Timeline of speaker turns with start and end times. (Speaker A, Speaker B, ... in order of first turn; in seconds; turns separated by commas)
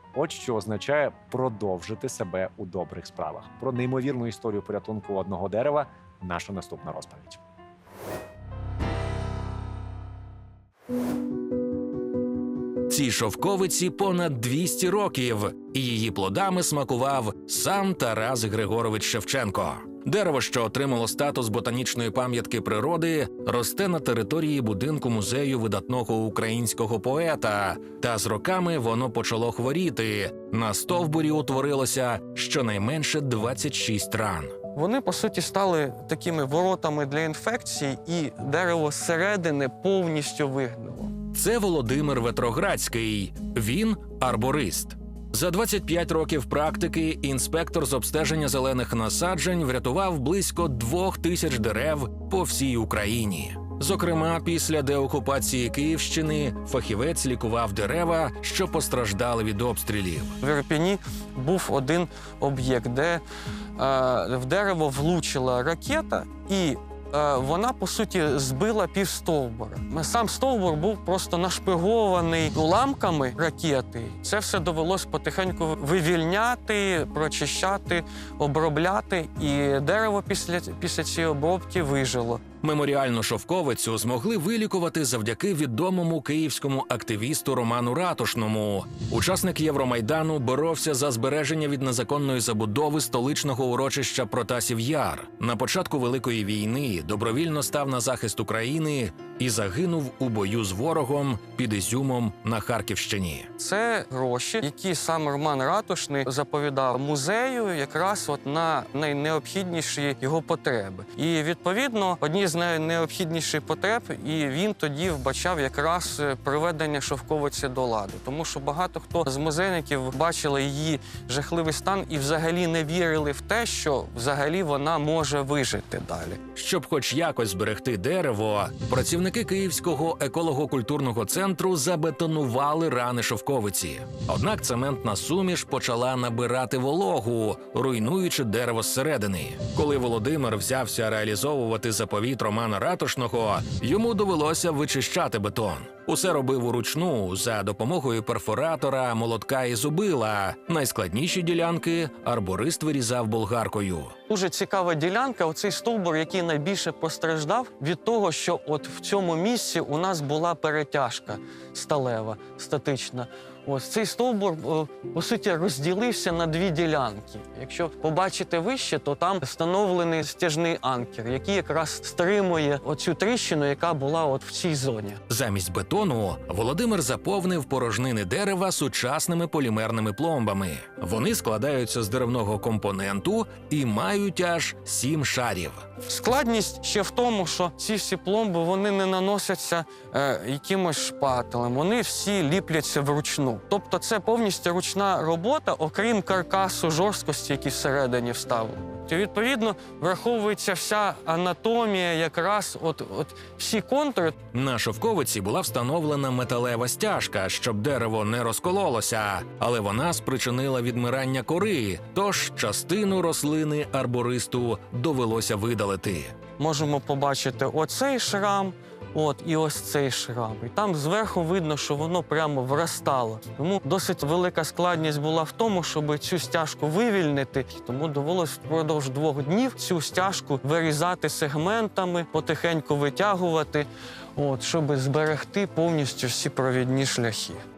Speaker A: 0.1-7.4, Speaker B: 12.9-34.5, Speaker C: 34.7-41.1, Speaker B: 41.3-60.4, Speaker C: 60.4-63.2, Speaker C: 63.8-82.4, Speaker B: 82.6-103.5, Speaker C: 103.6-126.4, Speaker B: 126.5-154.1, Speaker C: 154.3-175.2, Speaker B: 175.3-185.8, Speaker C: 186.0-204.4, Speaker B: 204.5-216.3, Speaker C: 216.6-237.6